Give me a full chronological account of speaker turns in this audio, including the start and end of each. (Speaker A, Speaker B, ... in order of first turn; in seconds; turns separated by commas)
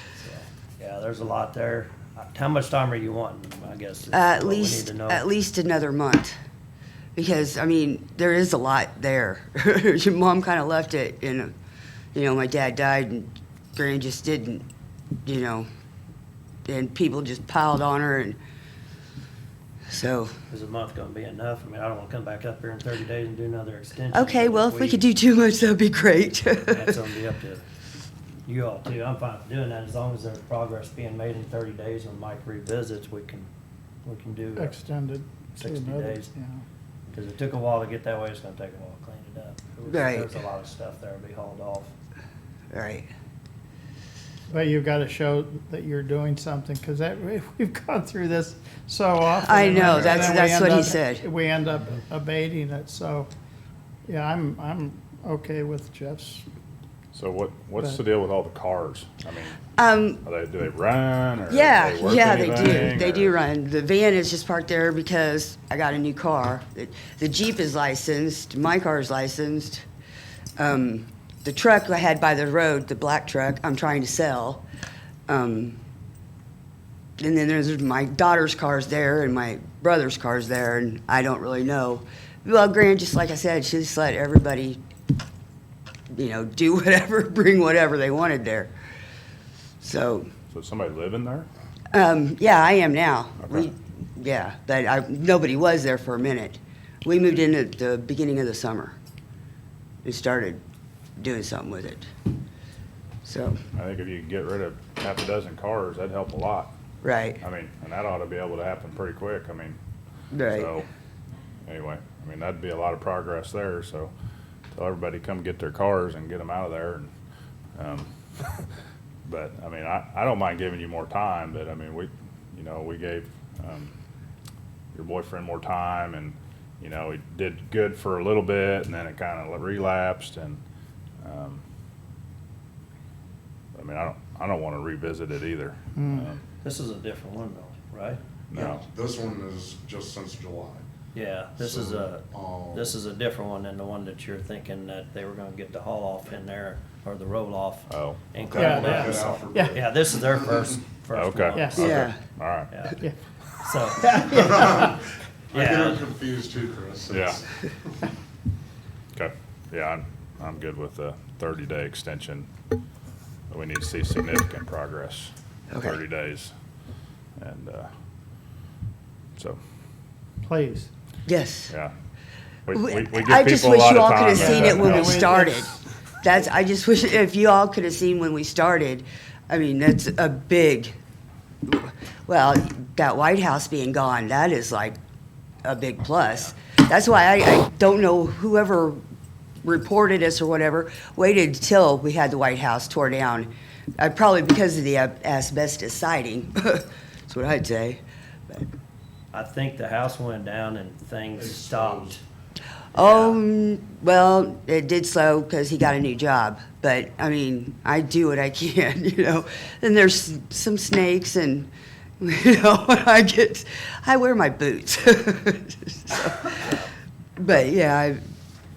Speaker A: 0.1-5.2, Speaker B: 4.1-6.3, Speaker B: 7.2-11.5, Speaker B: 12.1-14.7, Speaker B: 15.2-15.7, Speaker B: 16.6-18.4, Speaker B: 19.9-20.3, Speaker A: 20.5-25.0, Speaker B: 24.1-26.9, Speaker A: 26.6-27.6, Speaker A: 28.4-33.5, Speaker A: 34.0-34.8, Speaker C: 34.6-36.6, Speaker A: 35.5-36.3, Speaker A: 37.1-41.9, Speaker B: 39.9-40.3, Speaker B: 42.7-43.1, Speaker C: 44.5-53.3, Speaker B: 49.3-51.2, Speaker A: 49.6-50.3, Speaker C: 54.1-56.4, Speaker D: 57.1-59.6, Speaker B: 59.8-60.2, Speaker D: 60.2-63.3, Speaker B: 61.5-69.8, Speaker B: 70.6-74.6, Speaker B: 75.3-75.8, Speaker B: 77.2-84.8, Speaker B: 86.1-88.7, Speaker B: 89.8-90.3, Speaker D: 90.5-91.5, Speaker B: 91.9-99.0, Speaker B: 100.0-100.6, Speaker B: 101.2-102.1, Speaker B: 103.2-103.6, Speaker D: 103.7-106.7, Speaker B: 107.0-107.4, Speaker D: 107.4-109.8, Speaker B: 110.3-110.8, Speaker D: 110.5-110.9, Speaker D: 111.6-114.1, Speaker D: 114.7-117.1, Speaker D: 117.8-118.7, Speaker D: 119.2-123.9, Speaker D: 124.9-130.6, Speaker D: 131.2-131.6, Speaker D: 133.7-136.4, Speaker C: 135.9-136.3, Speaker A: 136.6-138.2, Speaker D: 138.5-138.8, Speaker E: 138.5-140.8, Speaker A: 141.1-152.1, Speaker E: 141.6-143.0, Speaker D: 147.9-148.3, Speaker E: 148.3-150.6, Speaker C: 148.5-149.8, Speaker D: 151.1-152.7, Speaker C: 151.5-151.8, Speaker B: 151.7-152.2, Speaker A: 152.7-153.0, Speaker A: 153.6-154.9, Speaker C: 154.3-154.9, Speaker E: 155.5-157.7, Speaker A: 155.5-156.0, Speaker D: 157.1-157.4, Speaker D: 159.1-162.5, Speaker D: 163.5-166.5, Speaker B: 165.7-166.0, Speaker D: 167.4-167.9, Speaker C: 170.4-170.9, Speaker B: 171.2-171.7, Speaker D: 172.7-175.3, Speaker B: 172.7-180.9, Speaker C: 174.3-175.6, Speaker B: 181.7-185.0, Speaker B: 185.6-189.0, Speaker B: 189.6-198.7, Speaker A: 199.3-202.2, Speaker E: 201.3-202.2, Speaker A: 202.9-203.4, Speaker B: 202.9-216.8, Speaker B: 217.4-218.2